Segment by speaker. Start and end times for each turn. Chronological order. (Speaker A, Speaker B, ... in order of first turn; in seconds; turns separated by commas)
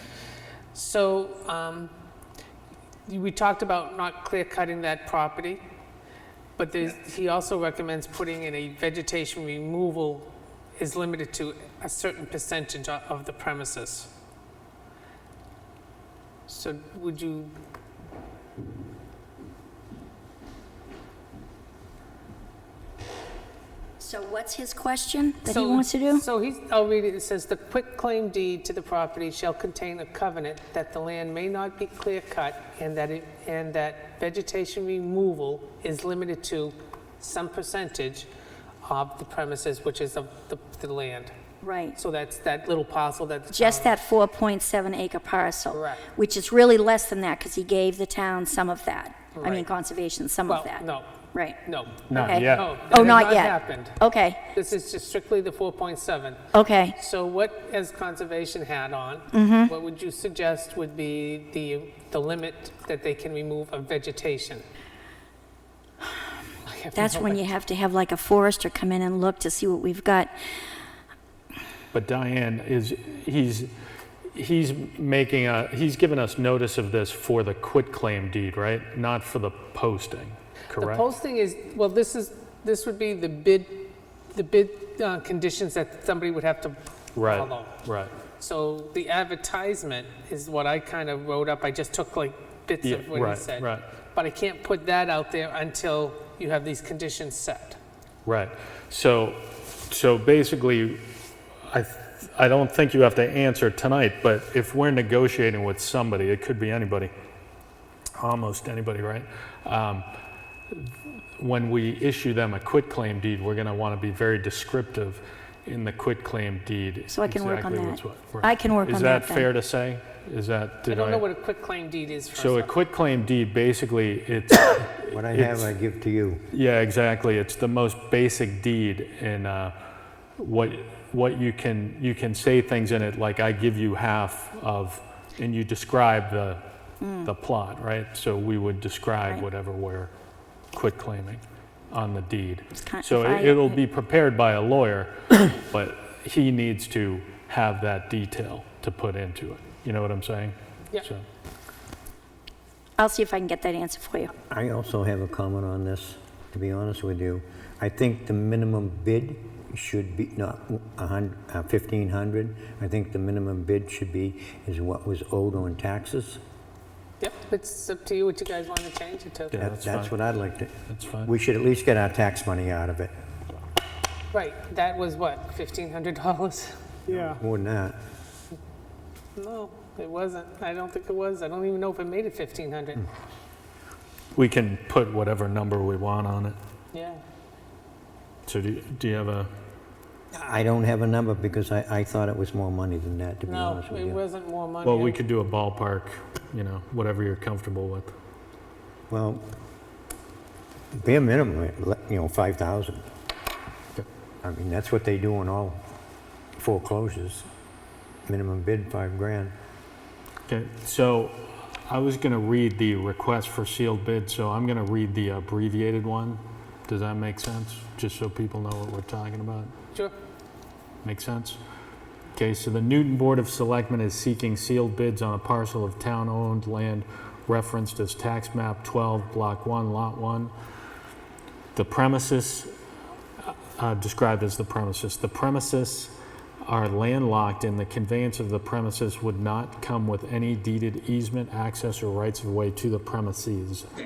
Speaker A: 0.7-1.9, Speaker A: 3.1-5.6, Speaker A: 6.6-14.1, Speaker A: 16.5-17.5, Speaker B: 24.0-26.2, Speaker A: 25.5-38.3, Speaker A: 38.8-41.3, Speaker B: 41.6-42.0, Speaker A: 42.0-44.0, Speaker B: 43.5-51.6, Speaker A: 45.7-46.1, Speaker A: 49.4-49.7, Speaker A: 50.5-51.1, Speaker A: 51.6-54.0, Speaker C: 52.1-52.9, Speaker B: 52.1-54.4, Speaker A: 54.5-64.6, Speaker B: 56.5-57.0, Speaker B: 59.3-59.7, Speaker A: 66.7-67.5, Speaker B: 67.0-70.3, Speaker C: 71.9-73.7, Speaker C: 74.3-81.0, Speaker A: 80.7-87.8, Speaker C: 87.2-88.1, Speaker A: 88.4-97.8, Speaker C: 92.8-93.8, Speaker C: 98.3-101.0, Speaker C: 101.7-107.1, Speaker C: 108.2-110.0, Speaker C: 110.7-121.3, Speaker B: 117.1-119.5, Speaker A: 120.9-122.8, Speaker C: 122.4-125.7, Speaker D: 125.1-126.5, Speaker C: 126.5-129.7, Speaker C: 130.4-136.6, Speaker B: 137.0-137.3, Speaker C: 137.2-140.1, Speaker C: 140.7-151.2, Speaker B: 142.8-143.8, Speaker B: 153.0-154.3, Speaker D: 154.5-166.4, Speaker A: 167.2-169.6, Speaker C: 169.5-170.2, Speaker D: 169.6-170.7, Speaker C: 170.9-171.3, Speaker D: 171.3-173.1, Speaker A: 174.3-176.8, Speaker D: 177.1-178.0, Speaker A: 179.4-183.1, Speaker C: 184.3-186.6, Speaker A: 186.9-187.2, Speaker C: 188.5-189.5, Speaker D: 190.3-194.2, Speaker A: 193.5-195.2, Speaker C: 194.8-198.1, Speaker D: 199.1-199.4, Speaker D: 200.9-203.0, Speaker D: 204.4-205.8, Speaker D: 206.6-207.5, Speaker D: 208.3-209.5, Speaker C: 210.5-219.7, Speaker C: 221.0-221.6, Speaker C: 222.3-230.5, Speaker C: 231.7-232.7, Speaker C: 233.4-243.9